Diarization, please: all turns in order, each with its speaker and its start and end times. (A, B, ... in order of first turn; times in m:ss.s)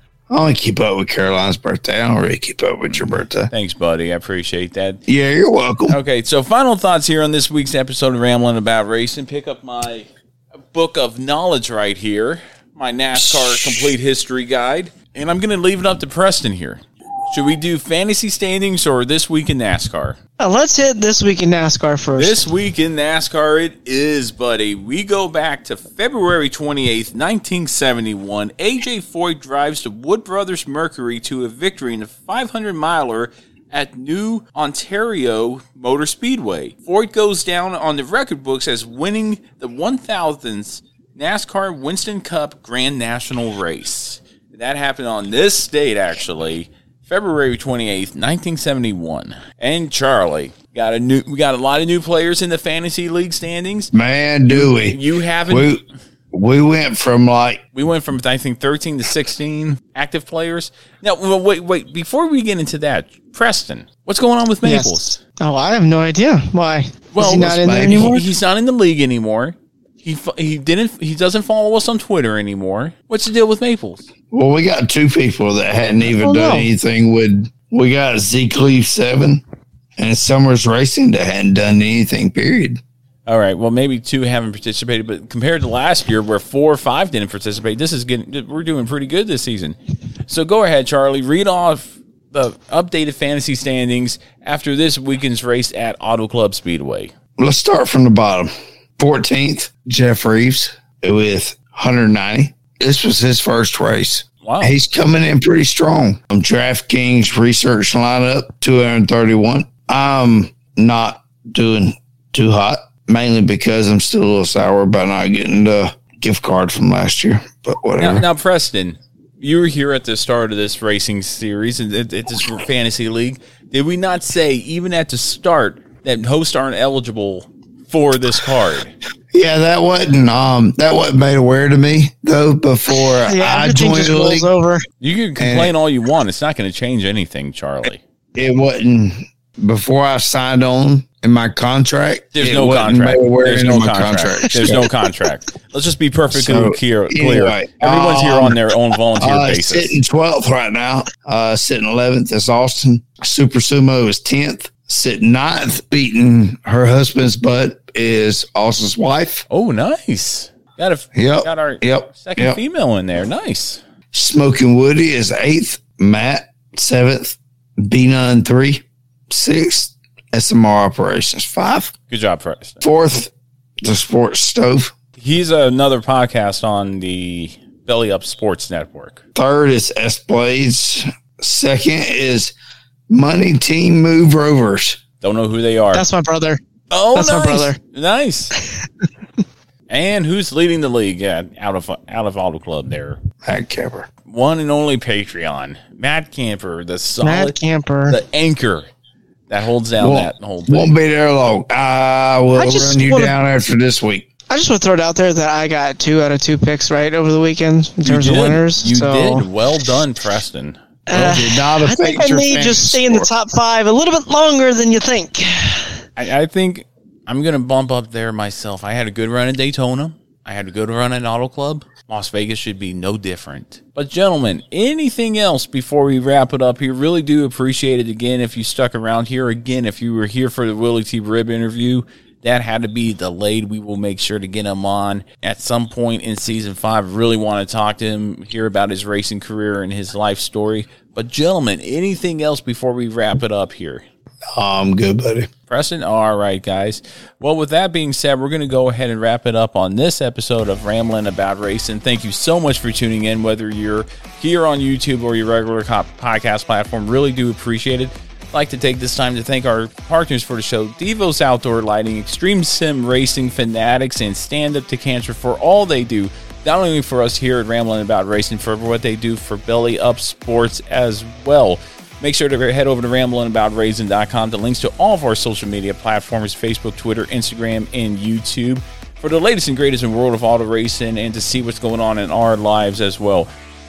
0:00.3-0:03.5 A
0:03.5-0:05.0 B
0:05.1-0:06.0 A
0:05.9-0:10.1 B
0:10.7-0:20.2 B
0:13.1-0:13.9 A
0:20.4-0:22.4 C
0:22.2-0:53.9 B
0:53.9-0:57.6 A
0:54.5-0:55.7 B
0:57.7-1:05.2 B
1:04.6-1:08.2 C
1:07.1-1:14.1 B
1:07.2-1:08.2 A
1:14.3-1:19.4 A
1:16.1-1:16.7 C
1:20.0-1:22.8 A
1:23.3-1:37.1 B
1:37.4-1:58.2 A
1:44.4-1:44.8 B
1:58.0-2:08.9 B
2:09.3-2:14.5 A
2:13.0-2:14.8 C
2:15.0-2:18.0 B
2:15.4-2:15.7 A
2:18.3-2:24.9 A
2:22.3-2:30.0 B
2:26.3-2:28.6 A
2:29.2-2:39.4 A
2:39.5-2:43.8 B
2:41.1-2:42.6 A
2:44.1-2:51.9 A
2:52.1-2:52.8 B
2:52.8-2:54.9 A
2:55.2-2:59.2 B
2:59.3-3:02.5 A
3:03.1-3:05.0 A
3:05.2-3:06.0 B
3:05.9-3:06.6 C
3:06.9-3:08.5 B
3:07.1-3:07.8 C
3:09.9-3:13.2 B
3:13.4-3:14.1 A
3:14.2-3:17.6 B
3:17.2-3:18.2 C
3:18.1-3:18.9 B
3:19.5-3:20.9 B
3:20.0-3:24.2 A
3:22.5-3:23.3 C
3:24.5-3:29.5 C
3:28.0-3:30.8 B
3:31.1-3:36.0 C
3:31.1-3:33.3 A
3:36.2-4:04.0 B
4:04.5-4:05.5 A
4:05.7-4:43.5 B